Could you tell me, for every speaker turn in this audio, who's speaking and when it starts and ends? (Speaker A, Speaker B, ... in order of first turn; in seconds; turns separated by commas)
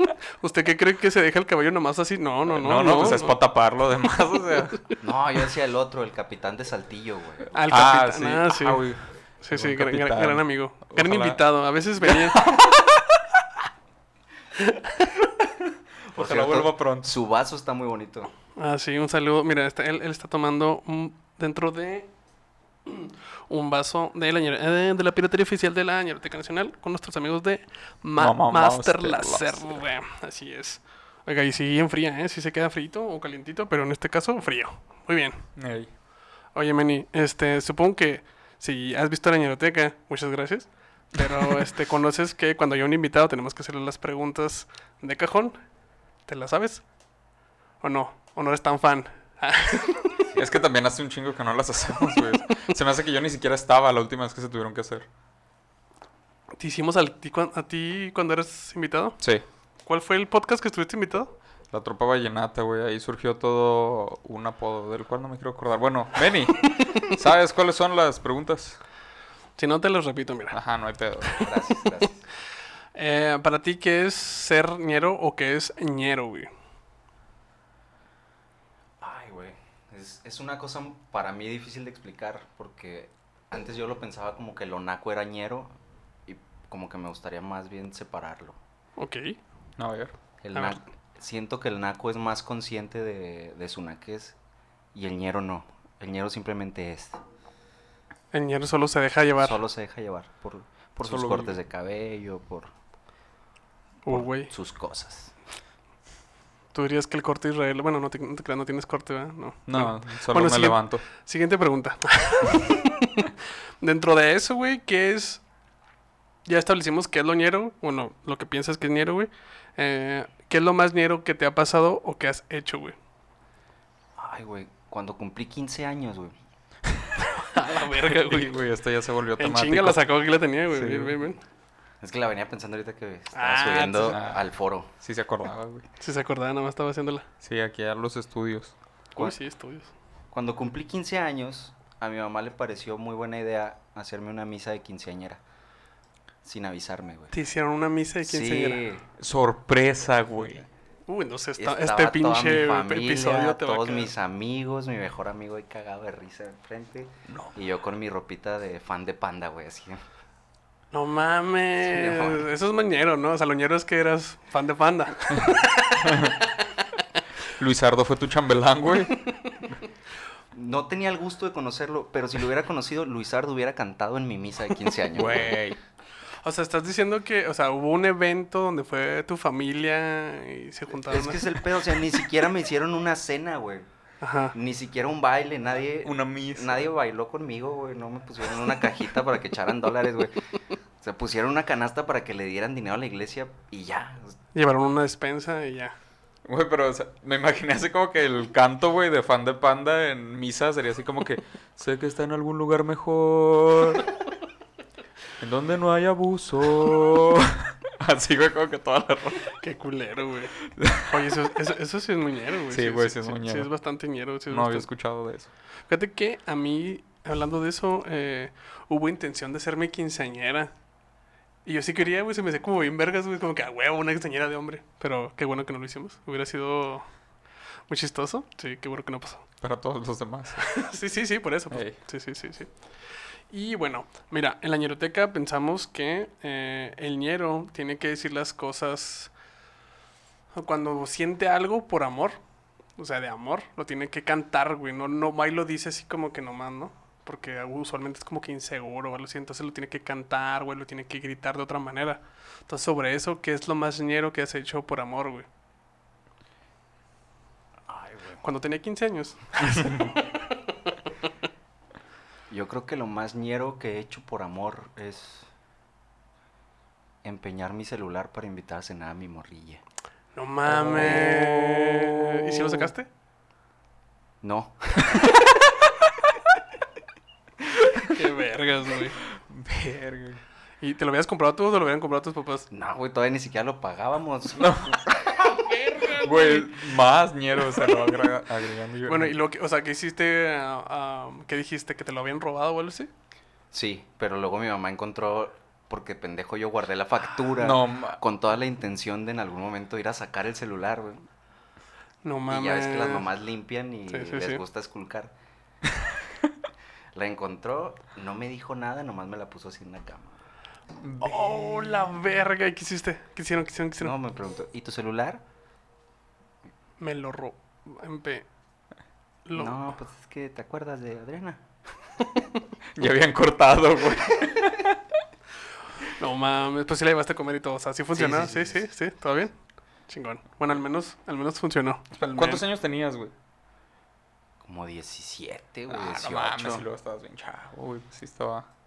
Speaker A: 0.4-3.4, Speaker B: 2.5-4.8, Speaker C: 5.0-7.6, Speaker A: 7.5-8.8, Speaker B: 7.7-11.4, Speaker A: 9.4-12.4, Speaker B: 12.0-13.0, Speaker C: 16.1-18.3, Speaker B: 16.1-17.1, Speaker A: 18.6-22.1, Speaker A: 22.9-35.4, Speaker B: 28.2-29.6, Speaker B: 35.6-35.9, Speaker A: 36.5-45.6, Speaker A: 46.3-46.8, Speaker A: 47.8-50.1, Speaker B: 50.4-55.1, Speaker A: 56.6-59.2, Speaker A: 59.9-61.3, Speaker B: 61.7-68.8, Speaker A: 69.6-70.6, Speaker B: 70.5-71.5, Speaker C: 71.4-72.2, Speaker A: 73.0-76.5, Speaker C: 79.0-85.7, Speaker C: 86.3-88.6, Speaker A: 89.0-89.4, Speaker B: 89.8-90.1, Speaker C: 90.4-94.4, Speaker A: 90.5-90.8, Speaker C: 94.9-97.2, Speaker A: 98.3-99.6, Speaker C: 99.4-102.7, Speaker B: 101.0-101.6, Speaker A: 104.0-104.5, Speaker C: 104.1-105.3, Speaker A: 106.7-115.4, Speaker B: 109.7-111.0, Speaker A: 116.5-123.0, Speaker C: 124.2-126.3, Speaker A: 127.3-128.6, Speaker B: 128.1-130.1, Speaker A: 129.4-131.4, Speaker B: 130.7-131.2, Speaker C: 132.0-134.9, Speaker A: 133.3-134.2, Speaker B: 134.1-134.4, Speaker B: 135.0-135.8, Speaker A: 136.0-137.3, Speaker B: 137.4-138.8, Speaker A: 139.2-139.9, Speaker C: 140.3-145.4, Speaker C: 146.4-147.3, Speaker A: 147.3-148.8, Speaker C: 148.2-149.1, Speaker B: 149.2-150.7, Speaker A: 151.1-154.1, Speaker C: 151.6-160.0, Speaker A: 160.9-166.3, Speaker C: 161.8-162.5, Speaker B: 166.0-166.3, Speaker B: 167.5-169.2, Speaker C: 170.5-175.5, Speaker B: 175.1-175.8, Speaker A: 176.4-181.6, Speaker C: 181.0-183.9, Speaker A: 184.2-184.6, Speaker C: 184.5-190.4, Speaker B: 186.0-186.9, Speaker C: 191.0-194.4, Speaker A: 194.5-195.9, Speaker B: 196.5-204.1, Speaker B: 205.4-209.5, Speaker A: 209.6-210.5, Speaker B: 210.8-211.1, Speaker A: 211.1-214.9, Speaker B: 212.7-213.7, Speaker B: 214.5-215.5, Speaker A: 215.9-220.7, Speaker A: 221.7-227.1, Speaker A: 227.9-229.4, Speaker B: 229.6-230.8, Speaker A: 230.6-232.7, Speaker B: 231.7-232.0, Speaker A: 233.5-239.3, Speaker A: 240.6-242.4, Speaker A: 243.0-255.5, Speaker C: 257.9-258.4, Speaker A: 258.4-260.1, Speaker C: 262.5-265.5, Speaker C: 267.2-269.8, Speaker A: 270.4-273.1, Speaker C: 270.7-272.0, Speaker C: 274.4-275.2, Speaker A: 278.1-279.2, Speaker B: 279.3-280.4, Speaker A: 280.8-282.7, Speaker C: 282.7-285.4, Speaker B: 284.6-285.0, Speaker A: 285.4-286.7, Speaker B: 286.1-289.4, Speaker A: 289.1-293.1, Speaker C: 293.7-301.3, Speaker B: 297.6-298.2, Speaker A: 302.2-303.3, Speaker C: 302.5-305.3, Speaker A: 304.1-304.6, Speaker C: 307.1-310.5, Speaker B: 311.0-312.3, Speaker A: 311.2-314.1, Speaker C: 314.0-315.4, Speaker A: 317.0-318.5, Speaker A: 319.4-320.0, Speaker C: 319.5-321.6, Speaker B: 323.0-325.0, Speaker A: 326.1-329.6, Speaker C: 328.1-328.8, Speaker A: 330.1-332.6, Speaker B: 332.2-333.3, Speaker C: 334.6-336.9, Speaker B: 335.9-338.7